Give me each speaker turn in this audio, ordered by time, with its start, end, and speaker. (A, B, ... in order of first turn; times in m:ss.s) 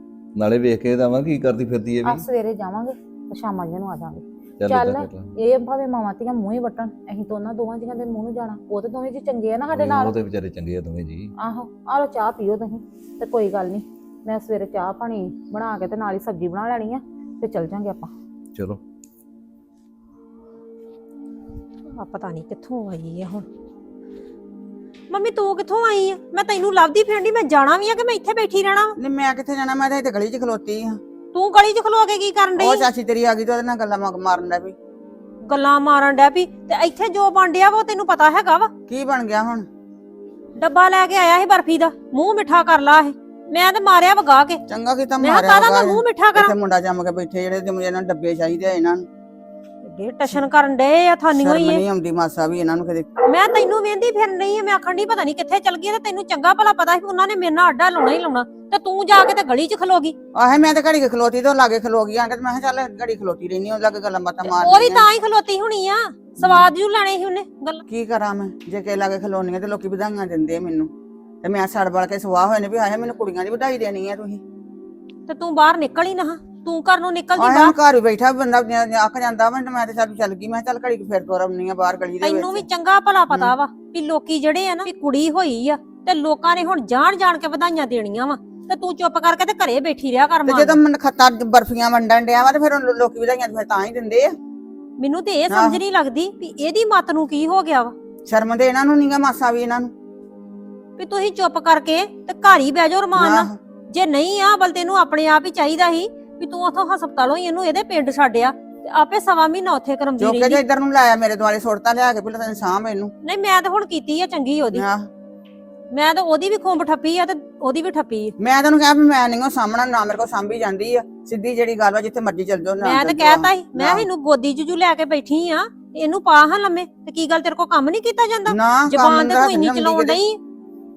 0:00.4-0:02.2 A
0:02.0-0:10.2 B
0:04.6-0:05.3 A
0:09.7-0:11.3 A
0:11.4-0:18.1 B
0:18.6-0:18.8 A
0:22.0-0:23.5 C
0:25.1-0:29.0 C
0:29.0-0:31.0 D
0:31.3-0:32.9 C
0:32.6-0:34.8 D
0:35.5-0:38.7 C
0:38.9-0:39.7 D
0:40.6-0:44.6 C
0:44.7-0:49.0 D
0:45.2-0:46.5 C
0:49.8-0:51.8 C
0:51.3-0:53.1 D
0:53.3-1:00.2 C
1:00.4-1:05.1 D
1:04.5-1:07.8 C
1:06.4-1:06.7 D
1:07.9-1:10.9 D
1:11.4-1:14.4 D
1:15.3-1:17.7 C
1:17.4-1:22.7 D
1:22.2-1:30.8 C
1:23.3-1:23.6 D
1:30.4-1:34.3 D
1:35.0-1:37.9 C
1:35.5-1:35.8 D
1:38.3-1:39.9 D
1:41.0-1:50.6 C
1:43.2-1:43.6 D
1:50.2-1:53.1 D
1:53.2-1:54.8 C
1:54.7-1:55.1 D
1:55.9-1:58.3 C
1:58.4-2:04.1 D
2:02.8-2:10.4 C
2:08.5-2:10.2 D